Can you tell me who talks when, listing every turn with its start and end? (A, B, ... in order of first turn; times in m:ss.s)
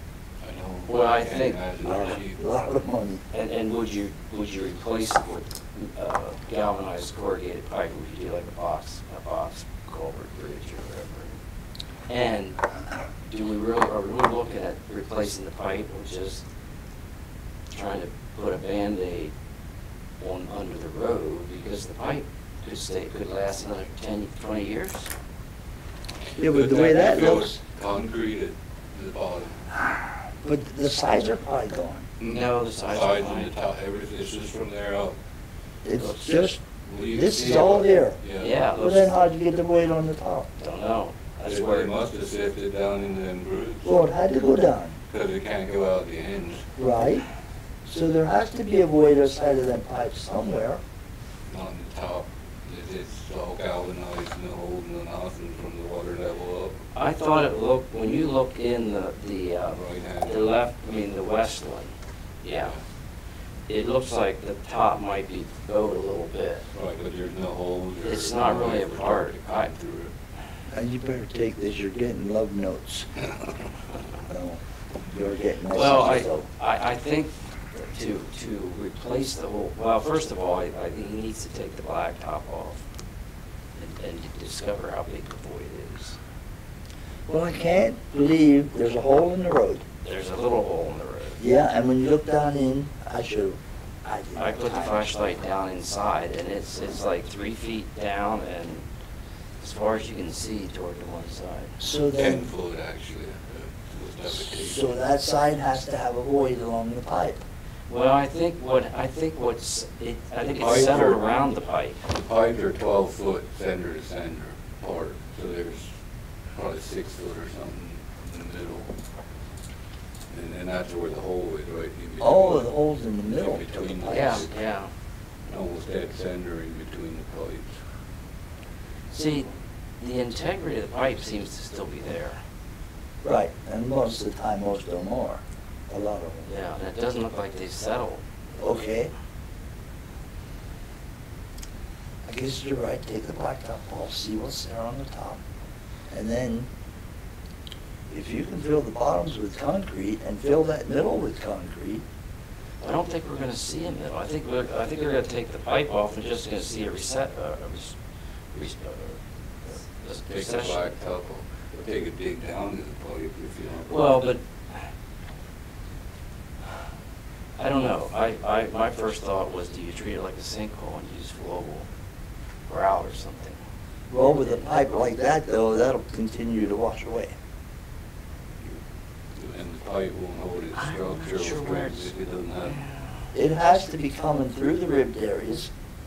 0:00.4-0:02.4 A
0:00.9-0:01.6 B
0:01.8-0:03.2 C
0:03.3-0:11.3 B
0:12.1-0:12.6 B
0:13.2-0:16.4 B
0:17.7-0:19.3 B
0:20.2-0:25.1 B
0:26.4-0:27.6 C
0:26.4-0:29.6 A
0:30.4-0:32.1 C
0:32.2-0:35.2 A
0:32.2-0:33.5 B
0:35.8-0:38.2 C
0:36.8-0:38.6 A
0:38.4-0:39.2 B
0:38.8-0:40.5 C
0:40.6-0:42.0 B
0:41.4-0:44.0 A
0:43.8-0:45.0 C
0:45.1-0:46.7 A
0:46.8-0:47.2 C
0:47.8-0:50.8 C
0:51.5-0:56.8 A
0:57.0-1:01.9 B
0:59.7-1:00.5 A
1:02.4-1:02.7 B
1:02.5-1:02.8 A
1:03.7-1:06.6 B
1:06.7-1:10.1 A
1:08.0-1:09.7 B
1:10.7-1:13.1 C
1:14.2-1:16.5 C
1:15.7-1:22.8 B
1:23.8-1:26.2 B
1:27.3-1:29.8 C
1:30.0-1:31.4 B
1:31.4-1:35.1 C
1:34.4-1:38.8 B
1:39.6-1:41.8 B
1:41.8-1:42.5 C
1:42.1-1:44.9 A
1:44.4-1:47.4 C
1:47.9-1:52.0 B
1:50.6-1:51.2 A
1:52.1-1:55.9 A
1:56.5-1:58.9 A
2:00.3-2:02.8 A
2:02.2-2:04.5 C
2:03.3-2:04.5 A
2:04.1-2:04.9 B
2:05.5-2:07.8 A
2:09.1-2:12.4 B
2:13.2-2:16.4 C
2:16.5-2:18.2 B
2:18.6-2:19.1 C
2:22.2-2:25.4 C
2:26.1-2:26.7 C
2:28.1-2:32.0 C
2:32.8-2:38.0 B
2:38.5-2:40.9 B
2:40.3-2:44.2 A
2:43.9-2:44.4 B
2:47.6-2:51.9 B
2:52.7-2:53.6 B
2:54.1-2:57.4 C
2:54.2-2:54.7 B
2:59.3-3:02.8 A
3:00.8-3:02.1 B
3:03.3-3:05.7 C